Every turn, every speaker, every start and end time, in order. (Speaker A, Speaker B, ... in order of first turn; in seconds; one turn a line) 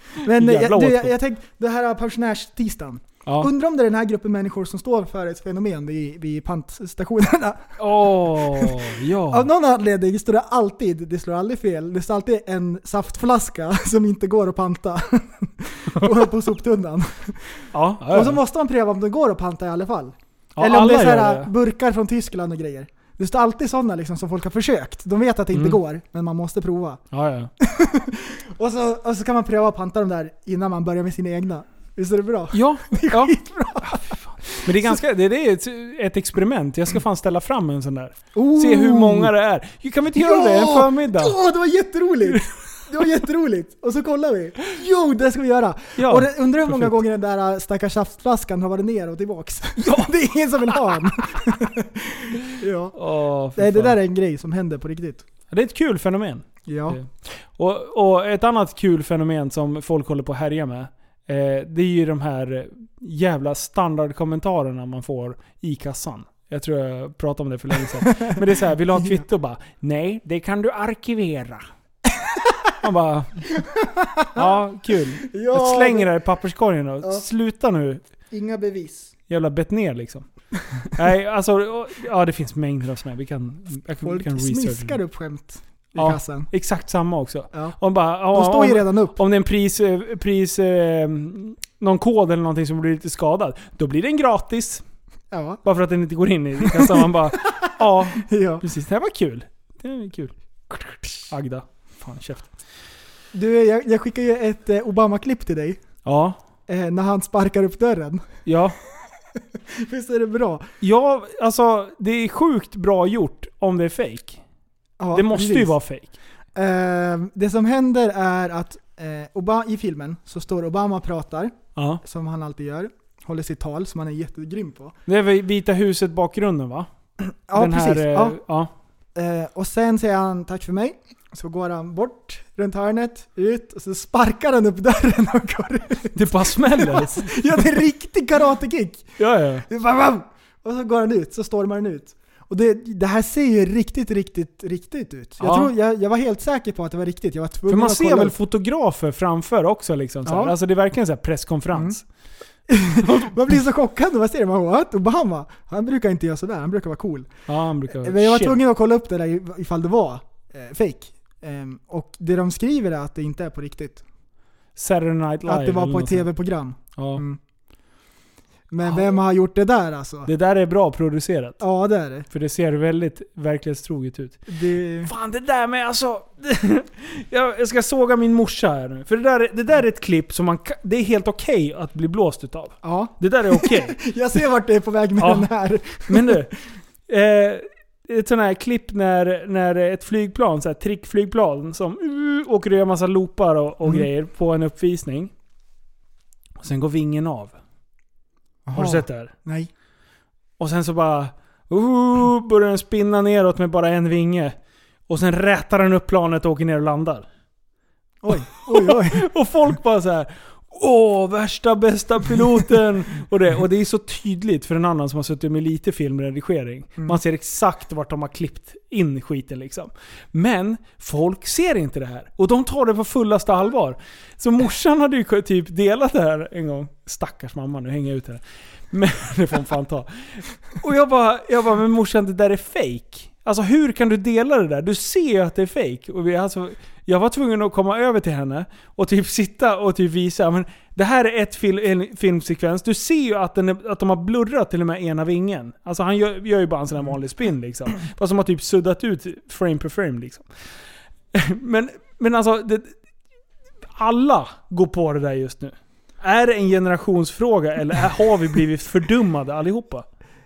Speaker A: 0.2-7.8
Speaker B: 0.3-1.1
Speaker B: 7.8-9.5
Speaker A: 8.3-8.8
Speaker A: 9.3-27.0
Speaker B: 17.7-18.4
Speaker B: 20.6-21.5
Speaker B: 27.1-27.5
Speaker A: 27.6-35.0
Speaker B: 32.5-41.4
Speaker A: 38.3-39.3
Speaker A: 40.1-53.0
Speaker B: 46.0-47.0
Speaker B: 49.8-50.1
Speaker B: 53.0-54.0
Speaker A: 53.5-55.2
Speaker B: 55.5-71.7
Speaker A: 56.7-57.0
Speaker A: 69.0-69.3
Speaker A: 72.2-72.7
Speaker B: 72.8-73.5
Speaker A: 73.6-74.7
Speaker B: 74.3-78.0
Speaker A: 75.2-76.1
Speaker A: 77.0-77.3
Speaker A: 78.3-79.1
Speaker B: 79.3-80.3
Speaker B: 80.8-85.0
Speaker A: 84.0-86.5
Speaker B: 86.0-94.8
Speaker A: 87.5-87.8
Speaker A: 88.3-89.2
Speaker A: 95.3-95.6
Speaker B: 95.6-102.5
Speaker A: 96.6-98.7
Speaker A: 103.3-105.8
Speaker B: 106.0-106.4
Speaker A: 106.7-108.4
Speaker B: 108.5-108.8
Speaker A: 109.4-110.7
Speaker B: 110.8-114.4
Speaker A: 115.0-115.8
Speaker B: 115.1-116.1
Speaker A: 116.5-125.0
Speaker B: 121.8-122.0
Speaker B: 125.1-126.9
Speaker A: 127.2-128.4
Speaker B: 127.5-128.7
Speaker A: 129.2-139.1
Speaker B: 136.1-137.4
Speaker B: 139.2-139.7
Speaker A: 139.7-148.3
Speaker B: 145.4-145.7
Speaker B: 147.7-152.0
Speaker A: 150.2-150.6
Speaker A: 152.7-157.3
Speaker B: 153.0-153.3
Speaker B: 157.5-158.6
Speaker A: 157.9-164.0
Speaker B: 164.8-166.3
Speaker A: 165.4-167.4
Speaker B: 167.0-167.2
Speaker A: 168.7-170.3
Speaker B: 170.3-171.6
Speaker A: 171.6-172.3
Speaker B: 172.3-184.0
Speaker A: 174.5-175.1
Speaker A: 182.8-186.6
Speaker B: 185.2-185.5
Speaker B: 186.1-186.5
Speaker B: 187.1-195.3
Speaker B: 196.6-197.6
Speaker A: 198.7-199.7
Speaker B: 198.7-199.3
Speaker B: 200.6-204.6
Speaker B: 205.1-207.3
Speaker A: 208.2-209.3
Speaker B: 208.3-250.5
Speaker B: 251.3-253.0
Speaker B: 253.9-260.1